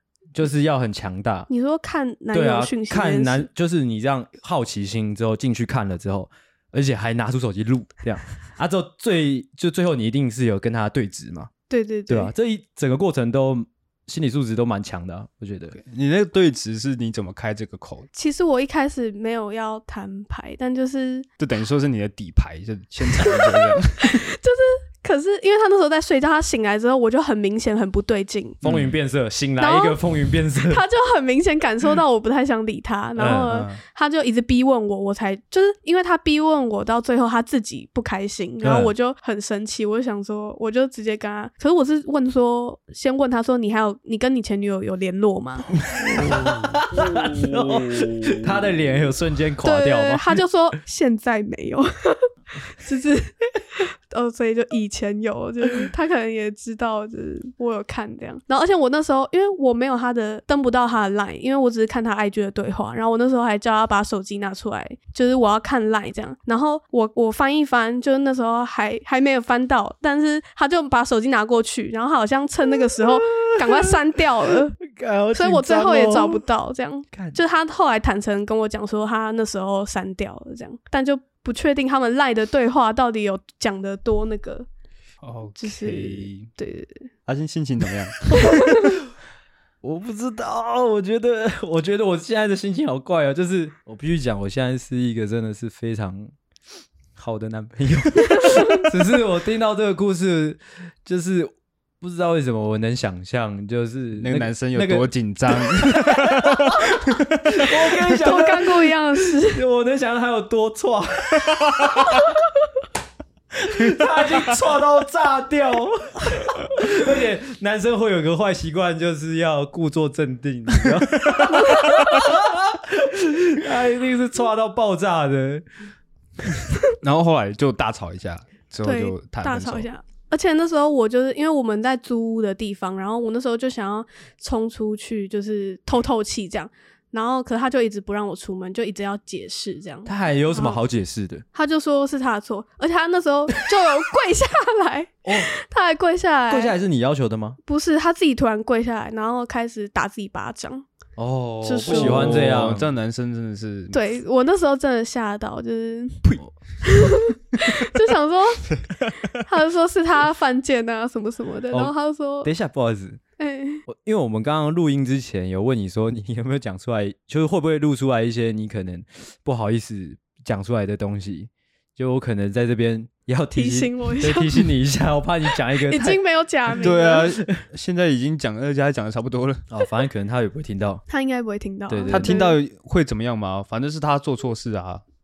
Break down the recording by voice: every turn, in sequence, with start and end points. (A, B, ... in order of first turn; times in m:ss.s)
0:00.3-0:01.5 A
0:01.5-0:03.5 B
0:02.3-0:11.5 A
0:11.7-0:12.3 B
0:12.1-0:15.8 A
0:15.7-0:18.1 C
0:18.1-0:21.3 B
0:21.4-0:24.2 C
0:23.2-0:28.6 B
0:28.6-0:28.9 C
0:28.6-0:30.8 A
0:29.6-0:30.0 B
0:30.5-0:45.7 B
0:33.2-0:33.6 A
0:33.5-0:33.8 C
0:38.6-0:38.9 A
0:45.8-0:50.4 A
0:46.4-0:46.8 C
0:49.6-1:14.8 B
1:12.9-1:16.4 A
1:15.3-1:24.7 B
1:17.1-1:17.4 A
1:25.2-1:26.5 C
1:25.6-1:27.1 B
1:27.2-1:28.5 C
1:28.4-1:29.0 B
1:29.8-1:36.3 A
1:37.1-1:48.9 A
1:38.3-1:38.9 B
1:44.2-1:48.1 C
1:48.1-1:49.6 B
1:49.5-1:52.2 A
1:53.6-2:05.6 A
1:53.8-1:54.0 C
2:01.5-2:01.9 B
2:07.0-2:09.9 C
2:08.8-2:20.8 B
2:20.0-2:21.4 A
2:21.5-2:26.7 B
2:26.5-2:27.6 A
2:27.6-2:30.8 B
2:31.2-2:32.9 A
2:31.6-2:32.4 B
2:31.8-2:34.0 C
2:33.9-2:42.5 B
2:41.7-2:43.2 A
2:43.4-2:43.8 B
2:43.9-2:56.2 A
2:53.5-2:54.7 B
2:55.5-2:57.3 B
2:56.7-2:59.6 C
2:57.1-2:57.6 A
2:59.7-3:01.0 A
3:01.1-3:02.6 B
3:01.9-3:02.4 A
3:02.1-3:05.0 C